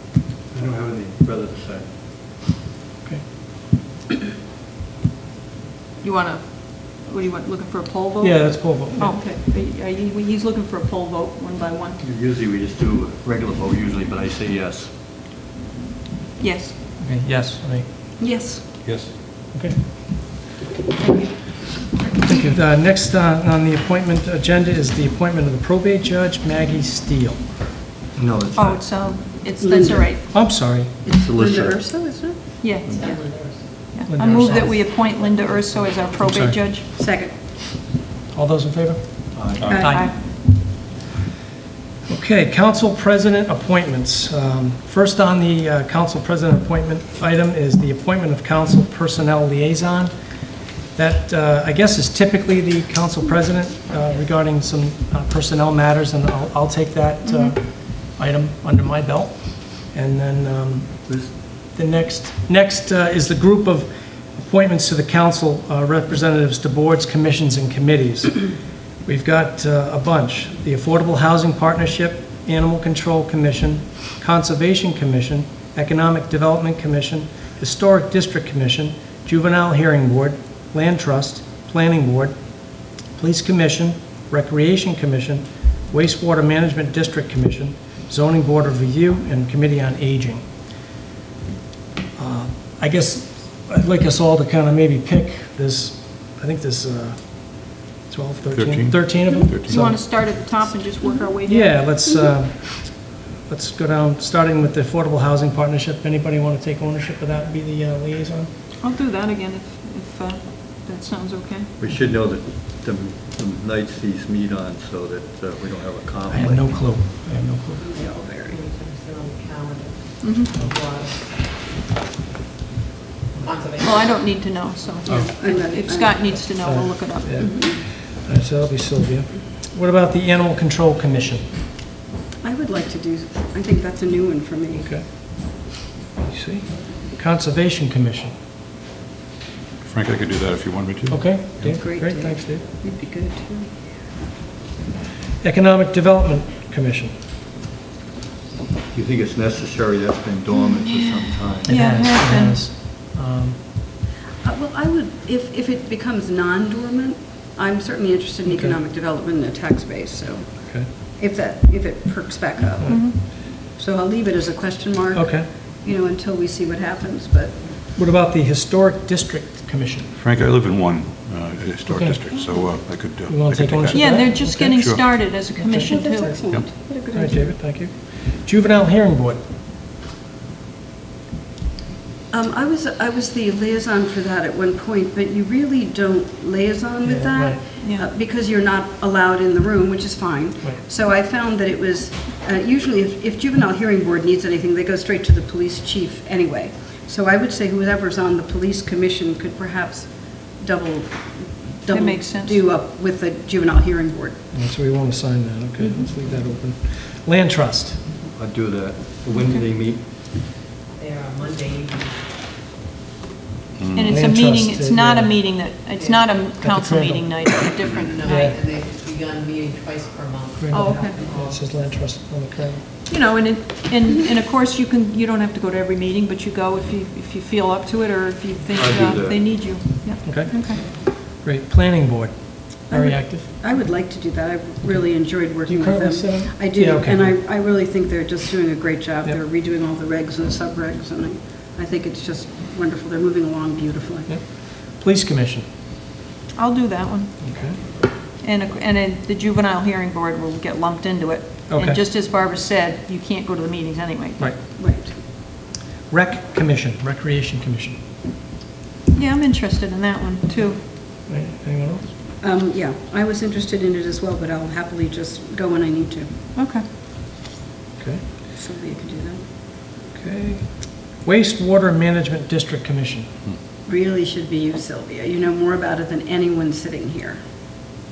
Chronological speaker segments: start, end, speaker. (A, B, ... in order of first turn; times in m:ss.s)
0:00.5-0:01.9 A
0:06.0-0:12.0 B
0:08.2-0:09.2 C
0:12.0-0:14.9 A
0:16.4-0:16.8 B
0:17.0-0:17.9 C
0:18.2-0:18.6 D
0:19.5-0:19.8 C
0:21.0-0:21.8 B
0:22.2-0:27.5 C
0:28.1-0:28.8 A
0:28.6-0:30.2 B
0:29.6-0:30.4 D
0:30.3-0:30.9 C
0:31.0-0:32.4 D
0:31.1-0:31.8 A
0:32.6-0:36.8 B
0:32.9-0:36.0 E
0:34.1-0:34.7 C
0:36.2-0:36.6 C
0:37.0-0:37.4 D
0:38.3-0:40.1 C
0:39.3-0:39.7 A
0:39.6-0:39.9 F
0:39.6-0:40.1 D
0:39.8-0:40.2 B
0:42.1-0:50.1 C
0:50.7-1:30.5 C
0:57.3-0:57.5 B
1:01.1-1:01.3 A
1:32.2-1:40.0 C
1:38.5-1:39.9 F
1:39.7-1:41.8 B
1:41.5-1:48.5 C
1:48.8-1:51.7 B
1:51.8-1:57.0 A
1:56.3-1:57.9 C
1:57.8-1:58.6 D
1:58.5-2:01.4 E
2:00.2-2:00.6 B
2:03.4-2:04.2 E
2:03.8-2:07.4 B
2:05.0-2:06.3 D
2:06.6-2:11.5 C
2:07.4-2:07.8 D
2:12.4-2:14.9 D
2:14.8-2:18.3 C
2:19.8-2:21.8 F
2:21.1-2:22.6 C
2:21.6-2:23.8 D
2:25.4-2:27.1 C
2:28.9-2:31.8 A
2:31.6-2:32.6 B
2:31.6-2:33.6 C
2:34.4-2:47.7 D
2:38.4-2:38.8 C
2:42.8-2:43.2 B
2:45.1-2:45.5 C
2:48.0-2:50.1 C
2:50.2-2:55.0 F
2:51.9-2:52.2 C
2:52.3-2:52.7 D
2:53.3-2:56.4 C
2:53.9-2:56.4 B
2:55.6-2:57.6 D
2:56.9-2:59.4 C
3:02.3-3:24.4 D
3:07.0-3:07.6 C
3:07.8-3:08.1 B
3:21.9-3:22.6 B
3:24.5-3:28.0 C
3:25.8-3:26.1 B
3:28.3-3:30.1 A
3:30.9-3:32.2 E
3:33.8-3:34.2 F
3:33.9-3:38.5 B
3:34.0-3:35.3 C
3:36.0-3:36.4 E
3:36.6-3:37.4 C
3:37.8-3:41.8 E
3:38.2-3:38.6 C
3:40.6-3:42.8 C
3:40.7-3:41.2 B
3:43.1-3:50.8 B
3:48.8-3:49.4 A
3:50.2-3:53.5 C
3:52.9-4:04.3 D
3:54.8-3:57.4 C
4:04.3-4:05.6 C
4:06.6-4:14.5 B
4:07.4-4:07.8 C
4:11.7-4:12.0 C
4:14.4-4:15.4 C
4:14.8-4:15.1 D
4:16.1-4:18.0 C
4:19.1-4:20.8 B
4:21.2-4:22.1 C
4:22.4-4:26.3 D
4:26.5-4:26.8 B
4:28.0-4:28.2 C
4:28.5-4:29.4 D
4:30.1-4:33.3 C
4:33.8-4:37.4 D